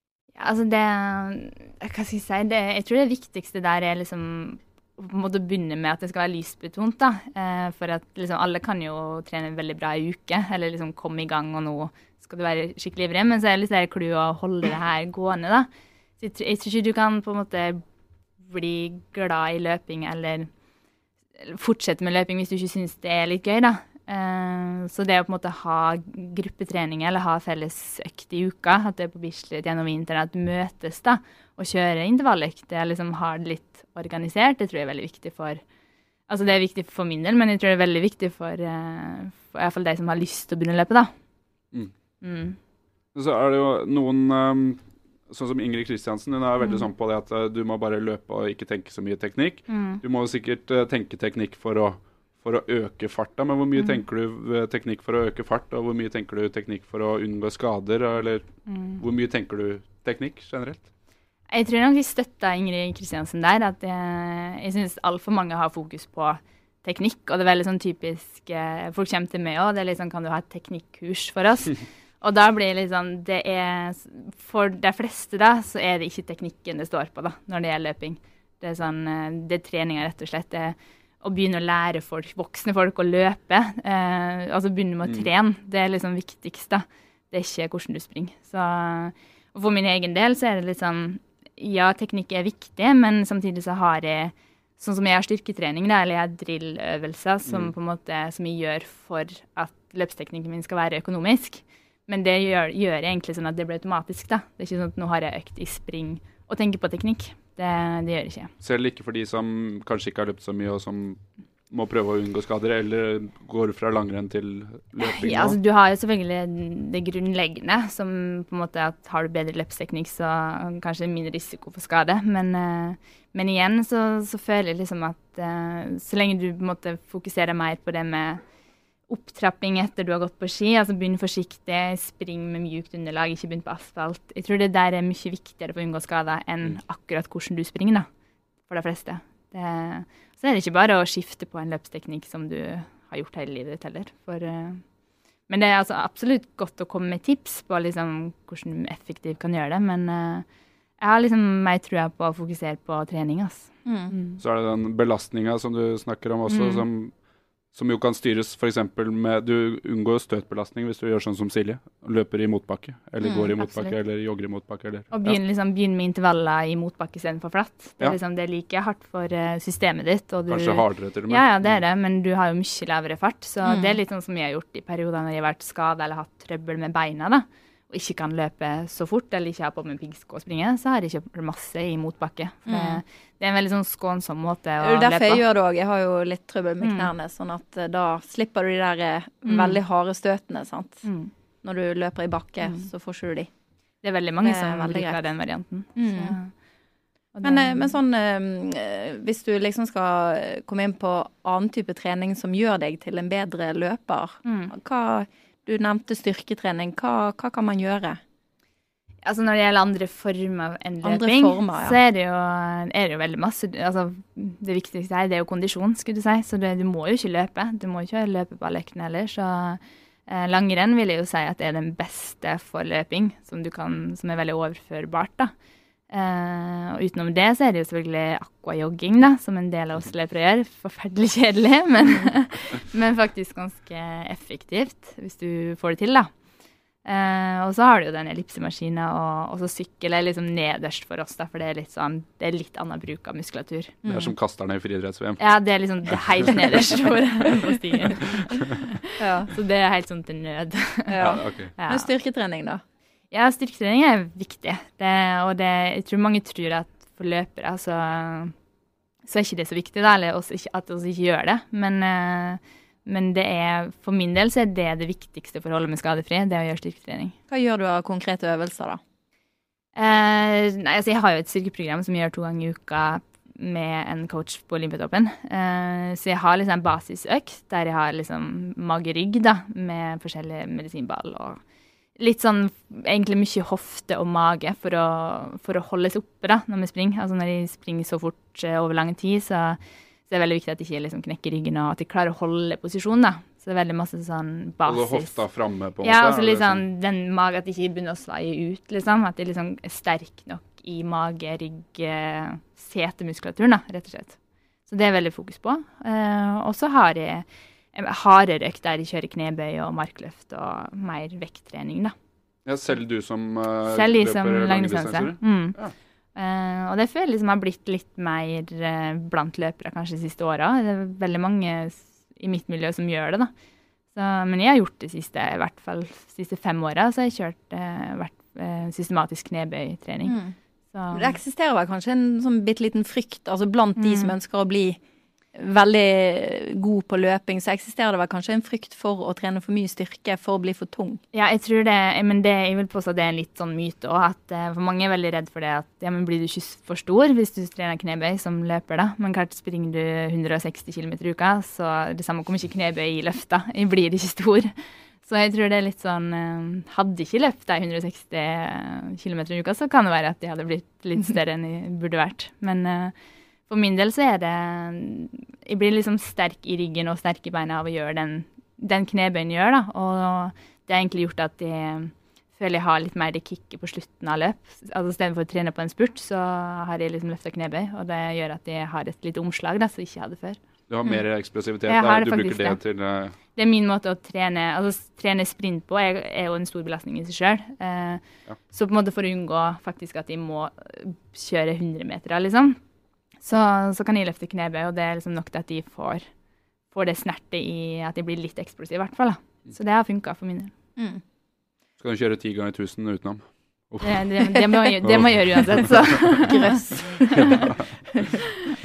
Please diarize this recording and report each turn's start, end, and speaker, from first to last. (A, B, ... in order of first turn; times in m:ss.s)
0:00.4-0:15.7 A
0:16.2-0:17.8 A
0:18.5-0:20.5 A
0:21.4-0:35.6 A
0:36.3-0:41.1 A
0:42.2-0:42.6 A
0:43.1-1:00.8 B
0:49.7-0:50.0 A
0:58.7-0:59.0 A
1:01.5-1:48.5 A
1:37.5-1:37.7 B
1:48.6-1:55.6 B
1:55.0-2:08.4 A
2:09.1-2:18.1 A
2:18.7-2:24.8 A
2:25.5-2:30.4 A
2:31.0-2:34.4 A
2:33.8-2:34.1 C
2:34.4-2:37.1 B
2:36.5-2:36.8 A
2:37.7-2:45.4 B
2:43.2-2:43.5 C
2:43.6-2:43.9 A
2:45.1-3:05.4 A
2:50.5-2:51.8 B
2:53.6-2:54.0 C
3:02.7-3:03.0 C
3:04.8-3:11.0 C
3:06.8-3:07.1 A
3:09.4-3:09.8 A
3:11.0-3:11.3 A
3:11.6-3:13.5 C
3:14.0-3:16.5 A
3:14.4-3:15.2 C
3:16.0-3:16.4 C
3:17.3-3:17.9 A
3:17.4-3:28.2 C
3:24.4-3:24.7 A
3:29.2-3:45.5 A
3:31.0-3:32.0 C
3:46.1-3:56.3 A
3:57.0-4:04.0 A
4:04.0-4:04.3 C
4:04.1-4:05.4 B
4:05.4-4:12.1 A
4:06.1-4:06.8 B
4:09.2-4:09.5 C
4:11.1-4:12.8 C
4:11.2-4:11.7 B
4:13.3-4:18.5 A
4:19.2-4:27.4 A
4:27.5-4:29.0 C
4:30.0-4:41.6 A
4:42.2-4:55.4 A
4:54.8-4:56.8 B
4:56.0-5:12.1 A
5:12.6-5:15.9 B
5:13.9-5:15.8 A
5:16.3-5:23.5 A
5:24.1-5:30.4 A
5:30.2-5:30.5 C
5:30.9-5:31.4 A
5:31.1-5:35.0 C
5:34.0-5:34.3 A
5:35.5-5:41.2 C
5:41.3-6:03.1 A
6:03.7-6:20.6 A
6:20.9-6:23.3 B
6:21.9-6:22.8 A
6:23.6-6:32.8 A
6:33.4-6:36.2 A
6:36.9-6:40.7 A
6:42.0-6:44.3 B
6:44.0-6:47.7 A
6:45.0-6:45.9 B
6:46.3-6:48.3 C
6:47.4-6:47.7 B